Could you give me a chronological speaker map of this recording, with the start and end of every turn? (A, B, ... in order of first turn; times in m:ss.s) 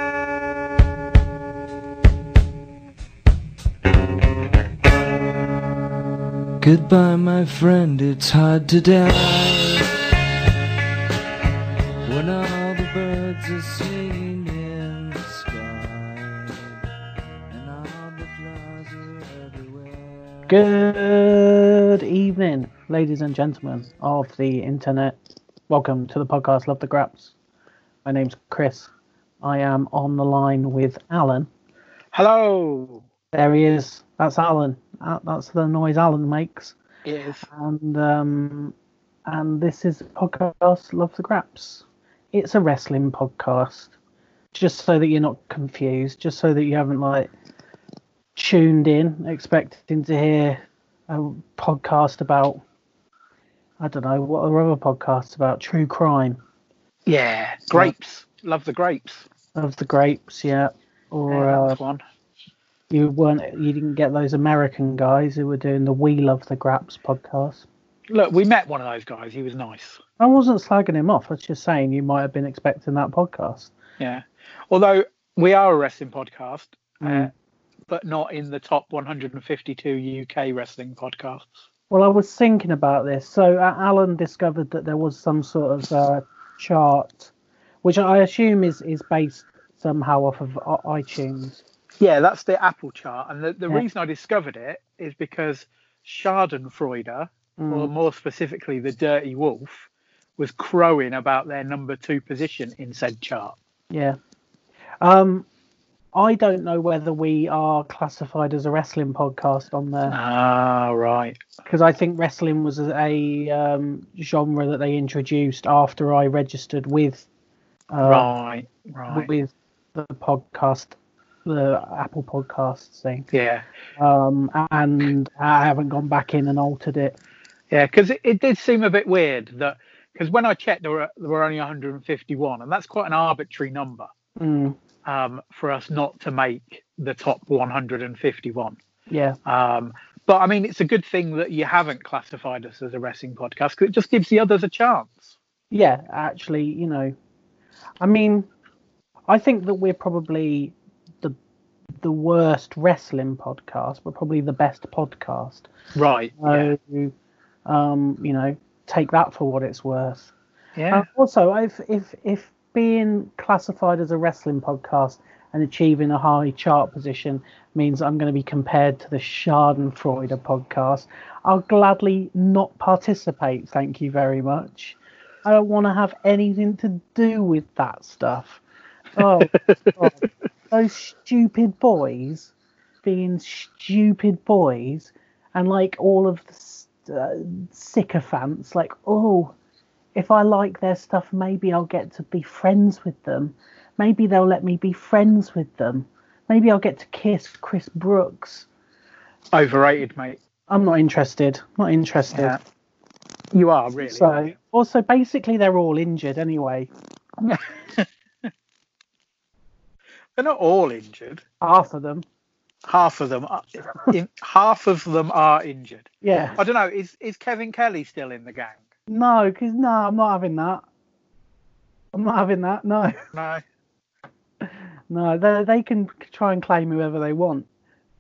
0:06.6-0:09.9 A
0:12.0-0:16.8 A
0:17.5-0:20.6 A
0:20.5-0:25.2 B
0:25.7-0:27.3 B
0:28.0-0:31.5 B
0:32.1-0:33.0 C
0:33.3-0:36.8 B
0:37.0-0:37.5 C
0:37.5-0:38.8 B
0:39.3-0:43.9 B
0:44.5-0:47.3 B
0:48.4-0:52.6 B
0:53.8-0:56.4 B
0:57.1-0:59.3 C
0:59.6-1:01.8 B
1:01.3-1:02.0 C
1:02.9-1:07.7 B
1:08.1-1:10.0 C
1:10.2-1:13.7 B
1:14.0-1:17.3 C
1:17.0-1:17.3 B
1:17.9-1:21.6 C
1:21.9-1:31.6 B
1:32.0-1:43.6 C
1:37.6-1:37.9 B
1:43.9-1:44.2 B
1:45.0-1:45.5 B
1:46.1-1:50.2 B
1:50.1-1:51.4 C
1:51.6-1:57.3 B
1:57.9-1:58.3 B
1:58.0-1:59.3 C
1:59.1-2:03.3 B
2:03.3-2:03.6 C
2:04.0-2:07.2 B
2:07.7-2:14.1 C
2:14.4-2:14.8 B
2:15.0-2:18.8 C
2:19.1-2:19.4 B
2:19.5-2:25.4 C
2:25.7-2:27.2 B
2:28.0-2:28.5 B
2:29.3-2:31.4 B
2:32.0-2:35.7 B
2:36.0-2:36.7 C
2:36.4-2:37.2 B
2:37.7-2:40.3 B
2:40.8-2:41.1 C
2:40.9-2:58.6 B
2:59.2-3:02.5 B
2:59.2-3:00.2 C
3:03.0-3:09.6 B
3:10.2-3:18.7 B
3:19.5-3:20.4 C
3:20.7-3:22.6 B
3:22.3-3:22.6 C
3:23.5-3:24.4 C
3:24.0-3:26.9 B
3:27.4-3:28.5 C
3:30.4-3:31.4 C
3:31.6-3:32.2 B
3:32.9-3:38.8 C
3:36.2-3:36.6 B
3:39.1-3:40.8 B
3:42.1-3:43.2 B
3:43.3-3:43.6 C
3:45.1-3:47.7 B